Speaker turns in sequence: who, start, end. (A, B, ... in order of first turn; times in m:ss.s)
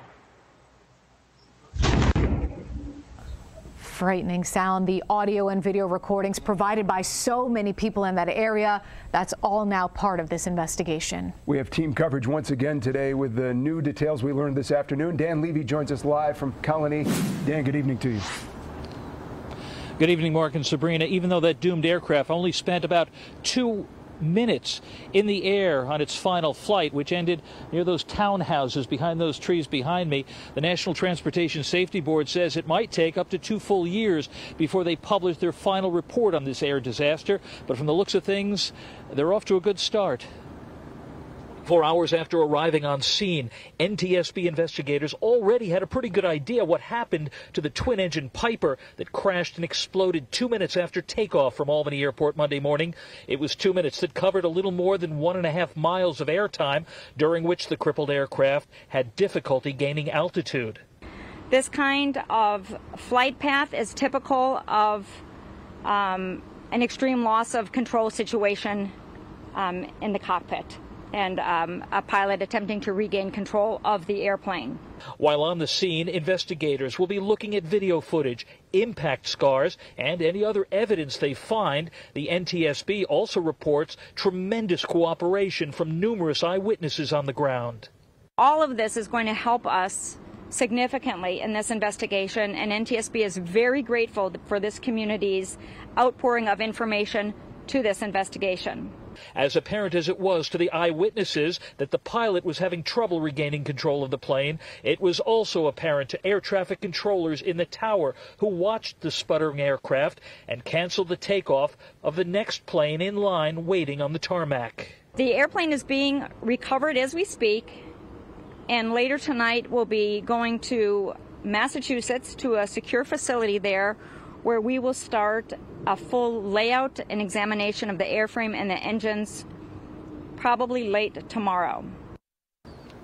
0:03.8-0:11.4 A
0:11.5-0:18.3 B
0:20.0-0:40.2 C
0:41.6-1:00.8 C
1:01.5-1:05.2 D
1:05.8-1:08.9 D
1:09.6-1:14.8 D
1:15.2-1:27.9 C
1:28.4-1:38.9 D
1:39.4-1:55.0 C
1:55.2-1:57.8 D
1:58.7-2:09.5 D
2:10.4-2:11.9 D